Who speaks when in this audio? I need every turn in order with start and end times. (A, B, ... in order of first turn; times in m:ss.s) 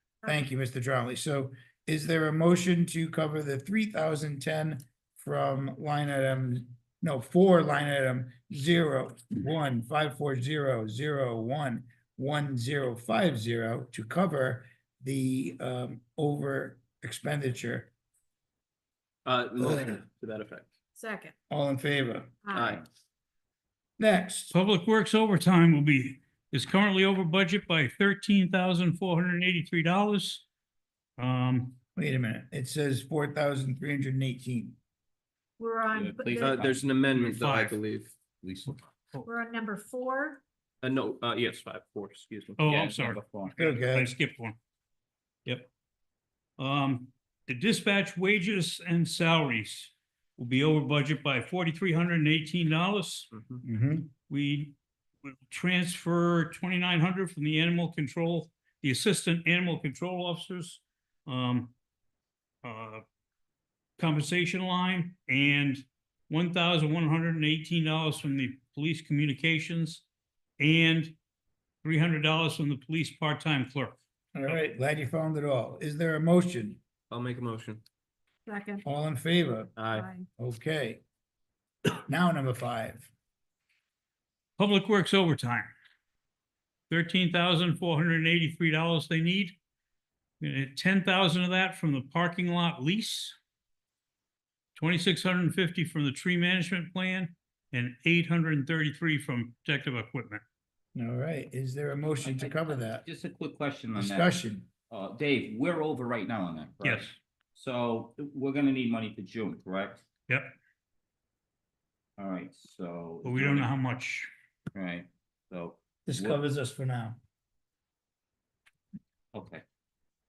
0:00.2-0:17.9 A
0:19.2-0:20.7 B
0:21.0-0:21.3 C
0:21.5-0:22.4 A
0:22.4-0:22.8 C
0:22.5-0:22.8 B
0:24.0-0:24.5 A
0:24.5-0:30.4 D
0:31.2-0:31.8 D
0:32.0-0:34.8 A
0:35.6-0:36.6 C
0:35.9-0:36.8 E
0:36.4-0:38.2 B
0:37.1-0:37.8 D
0:38.4-0:38.7 E
0:38.7-0:39.3 D
0:39.2-0:40.4 C
0:40.8-0:42.7 B
0:42.6-0:44.6 D
0:42.7-0:43.5 E
0:43.6-0:44.1 A
0:46.6-0:53.3 D
0:53.3-0:53.6 B
0:53.6-0:54.1 A
0:54.2-1:01.7 D
1:02.6-1:03.0 D
1:04.0-1:10.0 D
1:10.6-1:11.2 D
1:11.8-1:14.6 D
1:14.3-1:16.8 A
1:17.1-1:17.8 B
1:18.4-1:18.8 C
1:18.8-1:19.7 A
1:19.8-1:20.1 B
1:19.9-1:20.3 C
1:20.4-1:21.0 A
1:22.0-1:23.1 A
1:24.6-1:25.7 D
1:26.9-1:29.6 D
1:30.4-1:33.4 D
1:34.8-1:40.4 D
1:40.9-1:43.0 A
1:42.2-1:50.0 E
1:44.0-1:44.7 A
1:46.8-1:47.2 D
1:50.3-1:50.5 D
1:52.2-1:53.7 E
1:53.2-1:54.3 D
1:54.7-1:56.4 E
1:56.0-1:57.2 A
1:59.3-1:59.6 E